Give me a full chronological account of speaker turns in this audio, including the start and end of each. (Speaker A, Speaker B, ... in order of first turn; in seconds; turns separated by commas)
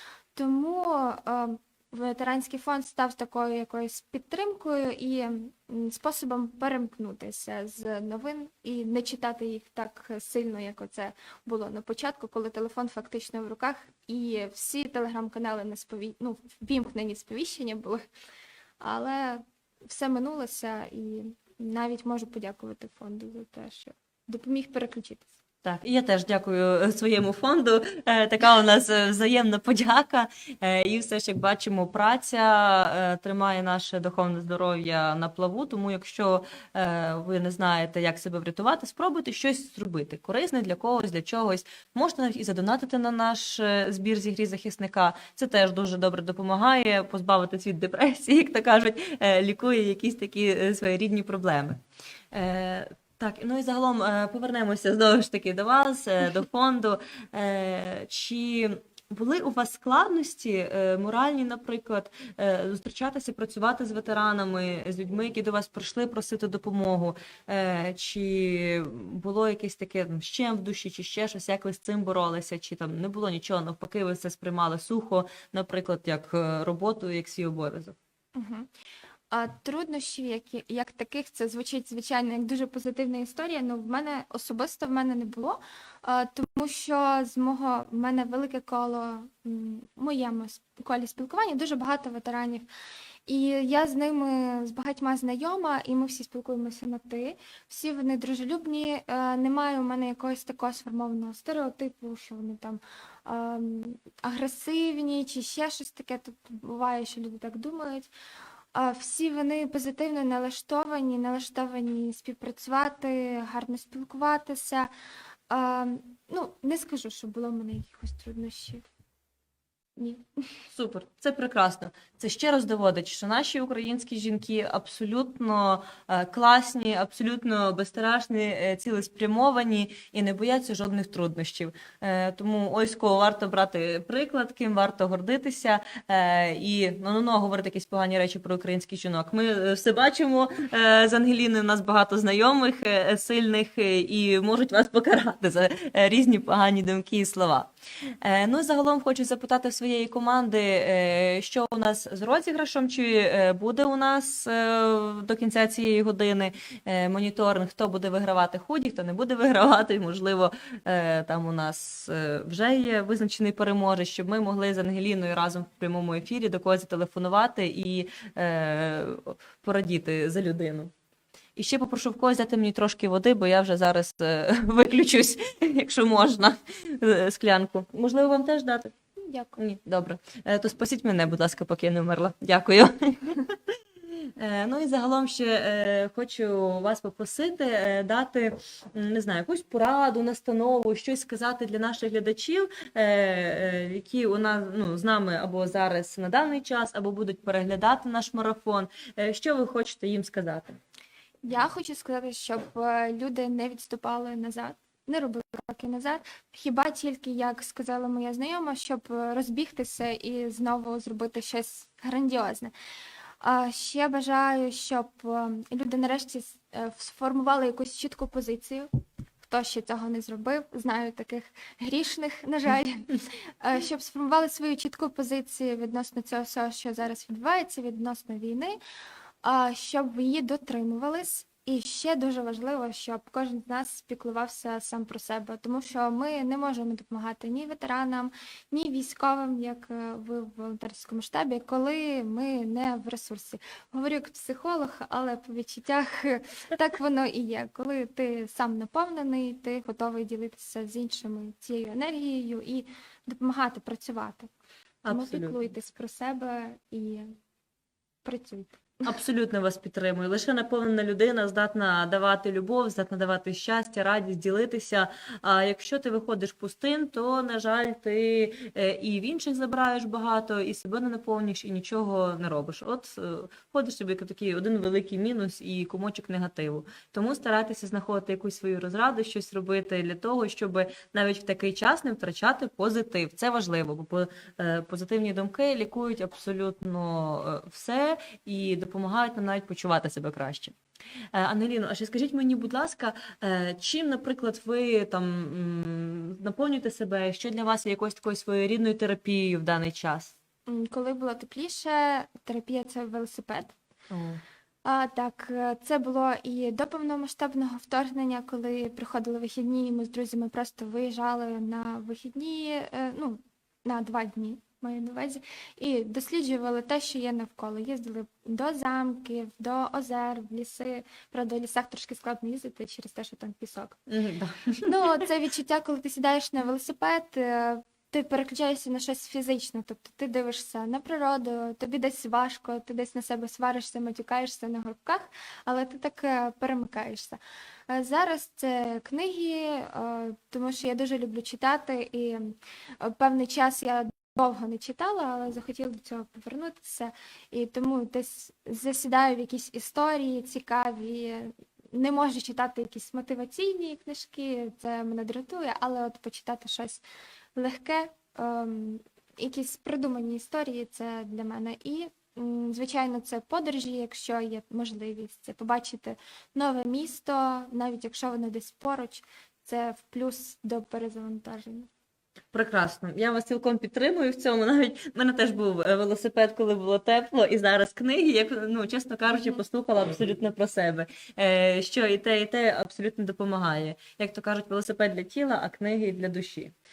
Speaker A: 0.3-18.1, Speaker A: 18.8-25.3, Speaker B: 25.6-51.8, Speaker B: 52.3-78.0, Speaker A: 78.3-78.7, Speaker A: 79.3-92.7, Speaker A: 93.3-108.1, Speaker A: 108.7-114.9, Speaker A: 115.5-118.9, Speaker A: 120.0-120.3, Speaker B: 120.7-147.7, Speaker B: 148.2-170.9, Speaker B: 171.6-178.9, Speaker A: 179.2-179.6, Speaker B: 179.6-183.6, Speaker B: 184.4-200.8, Speaker A: 201.4-212.7, Speaker A: 213.4-218.9, Speaker A: 219.4-228.8, Speaker A: 229.4-254.5, Speaker B: 255.0-255.6, Speaker A: 255.1-257.4, Speaker A: 258.2-259.1, Speaker B: 259.1-290.8, Speaker B: 291.3-300.4, Speaker A: 300.7-303.8, Speaker B: 304.1-304.4, Speaker A: 304.9-324.0, Speaker B: 324.1-325.1, Speaker A: 324.8-357.0, Speaker A: 357.6-371.9, Speaker B: 372.5-386.7, Speaker A: 379.3-379.6